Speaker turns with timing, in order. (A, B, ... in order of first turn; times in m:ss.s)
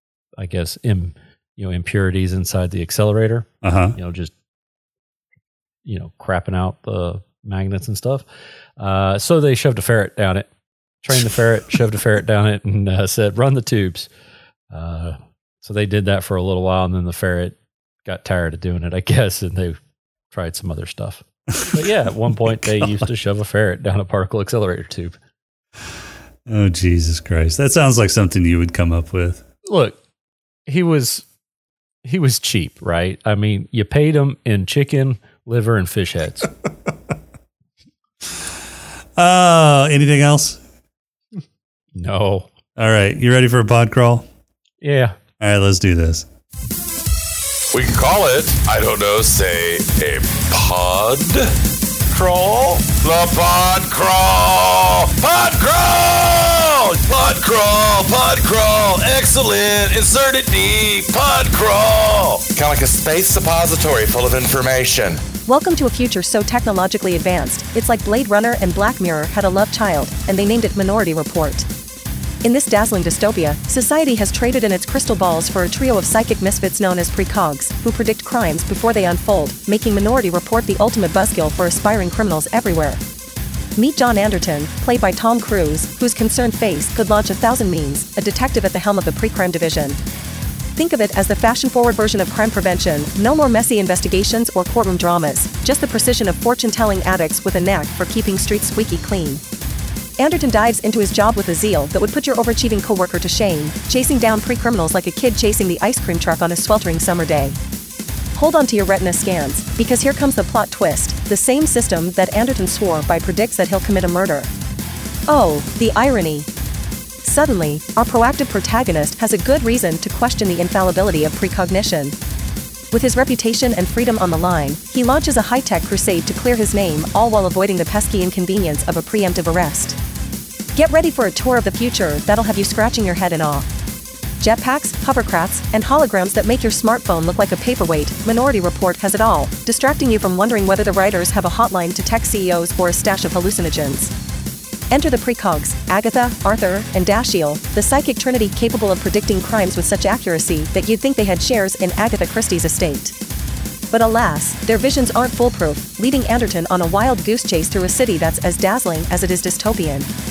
0:00.4-0:04.3 A
0:03.6-0:03.9 B
0:05.8-0:08.2 A
0:08.8-0:10.5 A
0:11.0-0:14.1 A
0:14.7-0:19.8 A
0:20.3-0:25.1 A
0:21.5-0:21.9 B
0:22.4-0:23.0 B
0:26.4-0:29.4 B
0:29.6-0:30.0 A
0:30.7-0:31.2 A
0:32.0-0:36.5 A
0:39.2-0:40.6 B
0:41.9-0:42.5 A
0:42.8-0:44.2 B
0:44.8-0:45.2 A
0:45.4-0:46.2 B
0:47.7-0:51.5 C
0:52.1-1:05.2 C
1:05.4-1:11.7 D
1:12.4-1:23.0 D
1:23.8-1:30.0 D
1:30.8-1:39.4 D
1:40.2-1:47.6 D
1:48.4-1:54.5 D
1:55.3-1:56.5 D
1:57.2-2:02.1 D
2:02.9-2:10.0 D
2:10.7-2:13.7 D
2:14.4-2:24.1 D
2:24.9-2:33.1 D
2:33.9-2:40.1 D